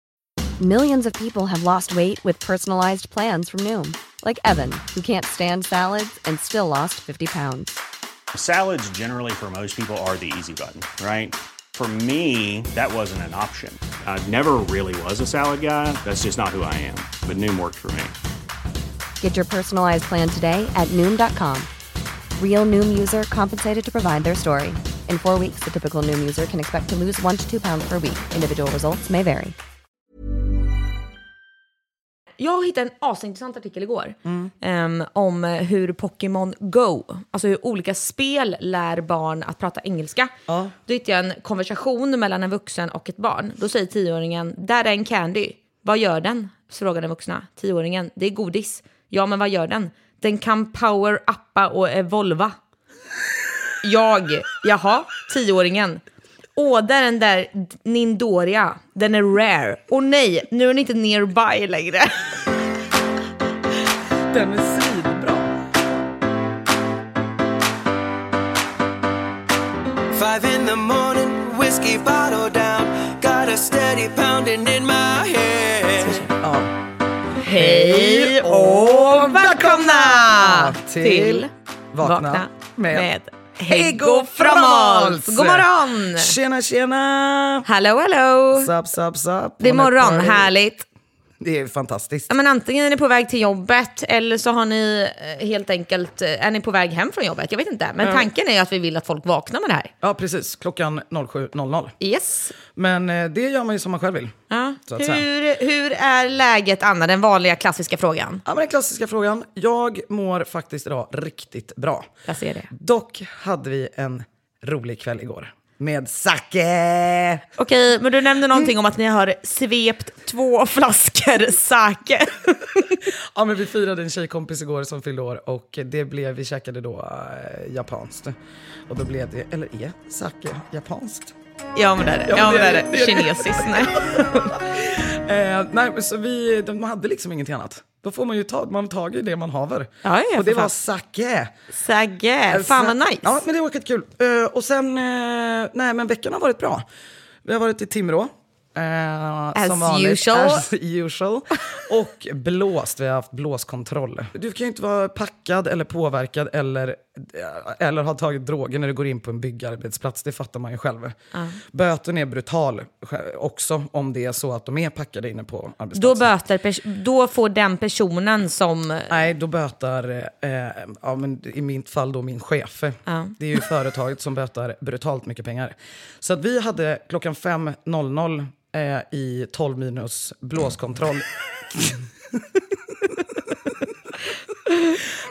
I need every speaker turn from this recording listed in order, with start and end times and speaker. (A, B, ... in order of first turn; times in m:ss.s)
0:00.6-0:07.8 A
0:08.3-0:18.2 B
0:19.2-0:21.7 A
0:22.4-0:29.6 A
0:32.4-0:40.3 C
0:34.2-0:34.5 D
0:40.5-0:40.7 D
0:40.9-0:52.6 C
0:53.8-0:56.0 C
0:56.6-1:02.3 C
1:04.3-1:05.5 D
1:10.1-1:16.1 E
1:16.0-1:16.3 C
1:16.4-1:16.7 D
1:17.4-1:21.5 C
1:17.4-1:23.1 D
1:22.0-1:26.3 C
1:23.6-1:27.7 D
1:27.7-1:28.7 C
1:28.6-1:30.5 D
1:29.6-1:30.8 C
1:31.4-1:32.3 D
1:32.3-1:39.9 C
1:38.0-1:38.3 D
1:40.0-1:42.0 D
1:42.0-1:42.5 C
1:42.8-1:44.3 D
1:44.5-1:48.4 C
1:44.9-1:45.2 D
1:48.5-1:52.1 D
1:52.3-1:52.7 C
1:52.7-1:57.4 D
1:57.6-2:02.9 C
2:03.3-2:08.4 D
2:08.9-2:11.3 D
2:11.8-2:14.3 C
2:12.3-2:21.5 D
2:20.0-2:20.7 C
2:21.7-2:23.3 C
2:22.5-2:26.8 D
2:27.4-2:41.2 D
2:29.6-2:30.7 C
2:41.7-2:46.3 D
2:46.0-2:49.1 C
2:49.1-3:01.3 D
2:53.1-2:53.4 C
3:04.7-3:05.0 C